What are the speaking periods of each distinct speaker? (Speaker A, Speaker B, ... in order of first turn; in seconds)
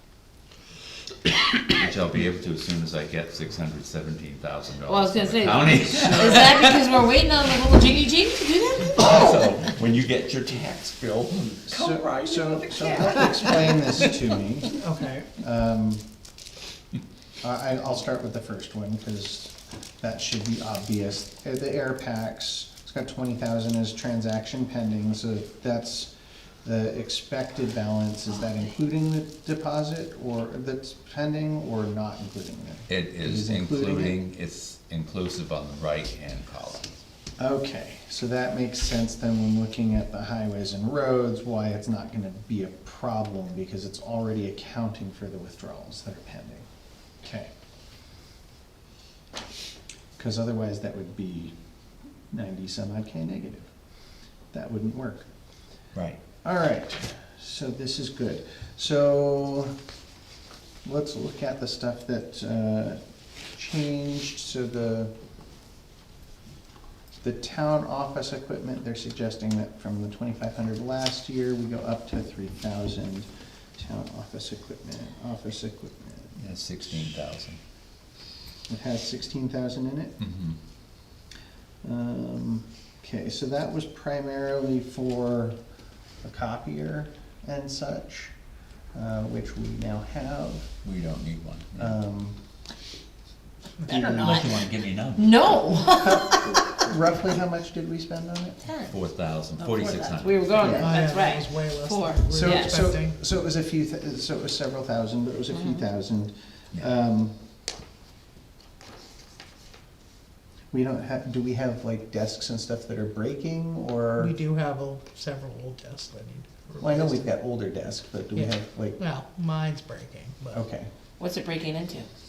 Speaker A: 1.7-6.8, 8.9-13.3, 32.9-36.9, 55.9-56.2, 76.4-77.6, 80.2-80.6, 90.8-92.0, 94.2-95.5, 98.9-100.5
Speaker B: 4.8-9.5, 93.8-96.7, 98.6-98.9, 99.6-102.8, 105.5-105.8, 121.2-122.1
Speaker C: 11.7-14.8, 15.4-16.0, 17.4-26.1, 26.6-34.2, 37.4-46.6, 47.2-47.5, 50.2-51.5, 52.3-53.7, 54.5-55.3, 56.4-59.7, 60.8-63.0, 63.5-65.1, 67.2-76.4, 78.7-80.1, 81.8-85.5, 86.2-88.3, 88.9-90.7, 91.8-92.4, 95.9-98.6, 100.6-101.0, 102.3-107.3, 110.7-114.3, 116.8-119.0, 120.5-120.9
Speaker D: 14.7-15.3, 93.8-94.4, 100.6-103.2, 114.2-117.2, 118.3-120.6